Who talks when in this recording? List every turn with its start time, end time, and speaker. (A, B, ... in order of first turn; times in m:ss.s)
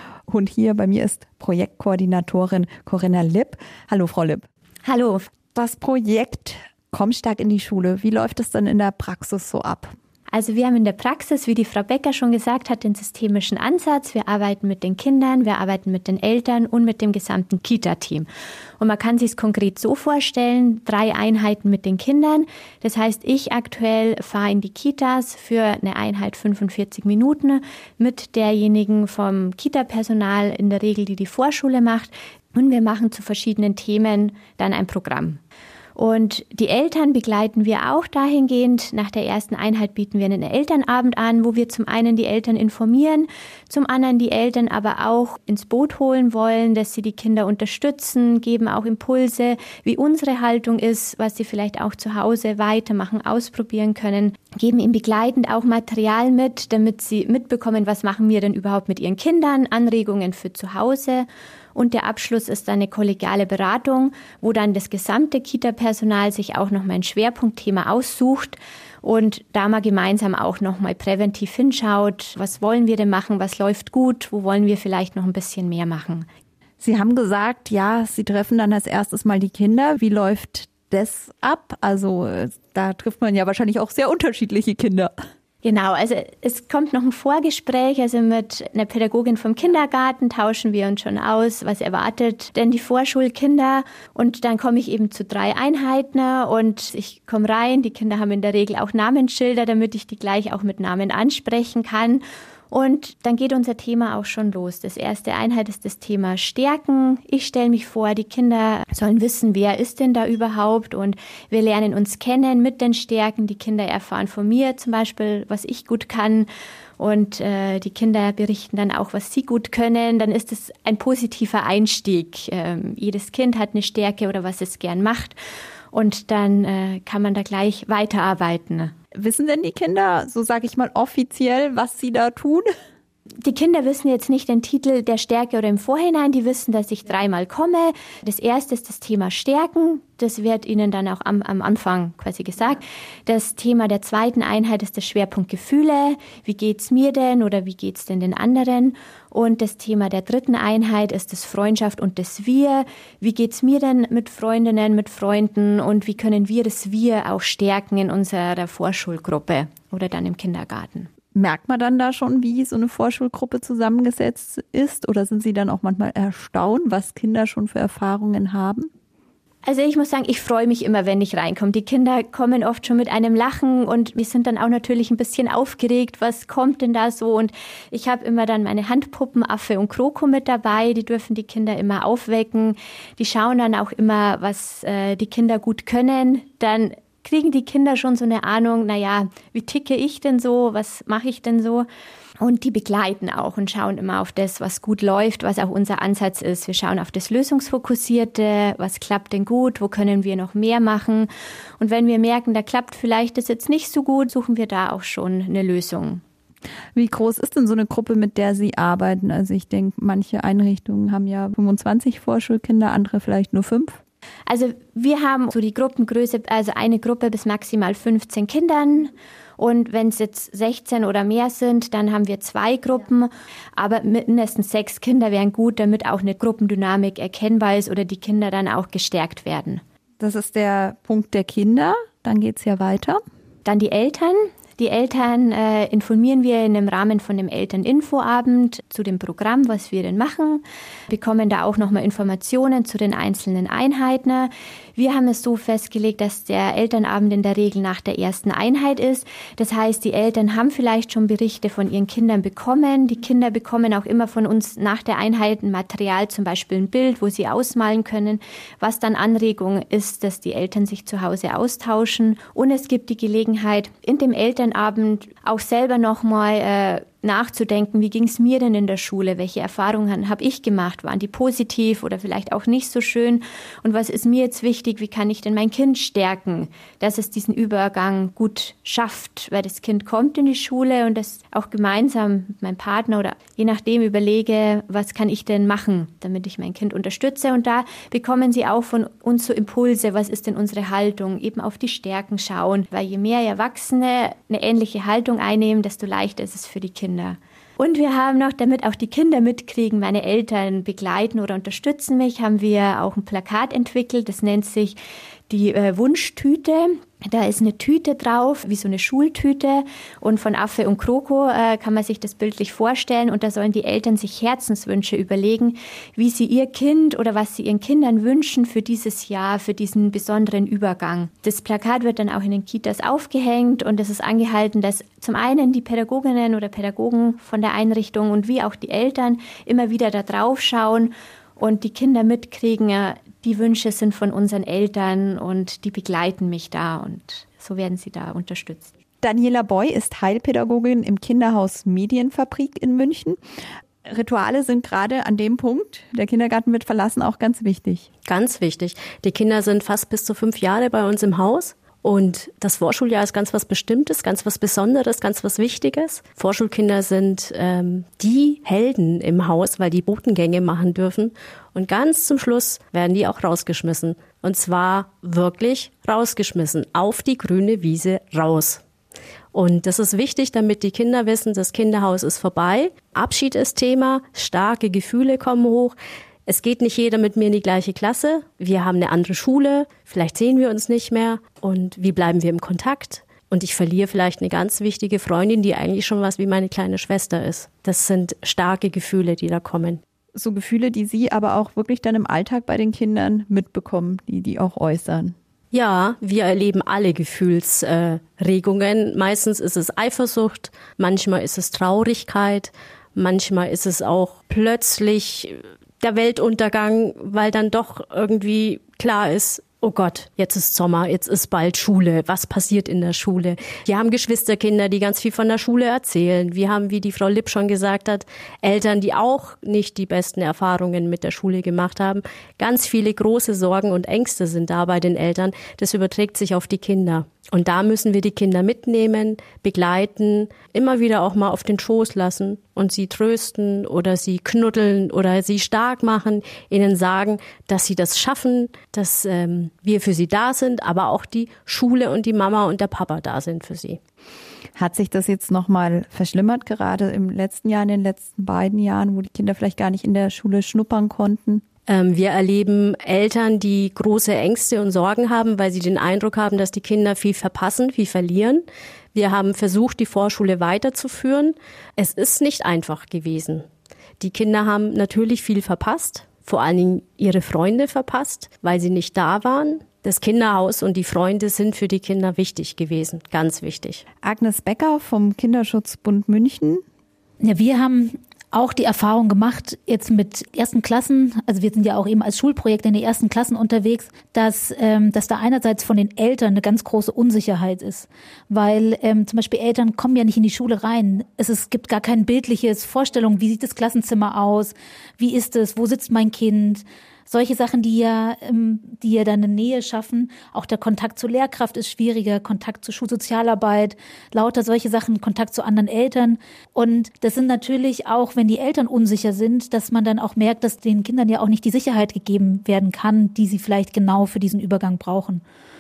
0:00.3-0:04.5 A
0:04.8-0:05.3 B
0:05.5-0:09.9 A
0:10.3-0:18.3 B
0:18.8-0:35.4 B
0:36.0-1:16.3 B
1:16.8-1:25.1 A
1:25.6-1:56.5 B
1:57.0-2:05.4 B
2:05.9-2:08.9 B
2:09.1-2:12.7 A
2:13.4-2:41.1 B
2:41.3-2:48.9 A
2:49.7-3:11.9 B
3:12.4-3:26.2 B
3:26.9-3:34.0 A
3:34.5-3:49.8 B
3:50.2-3:53.2 A
3:53.6-5:05.0 B
5:05.5-5:38.9 B
5:39.2-5:43.4 A
5:44.0-5:48.1 A
5:48.3-6:08.8 C
6:09.5-6:16.0 C
6:16.5-6:30.0 C
6:30.4-6:35.4 A
6:35.7-7:24.0 C
7:24.8-7:31.6 A
7:31.9-7:43.6 C
7:44.2-7:54.0 C
7:54.2-7:56.8 A
7:57.4-8:35.4 D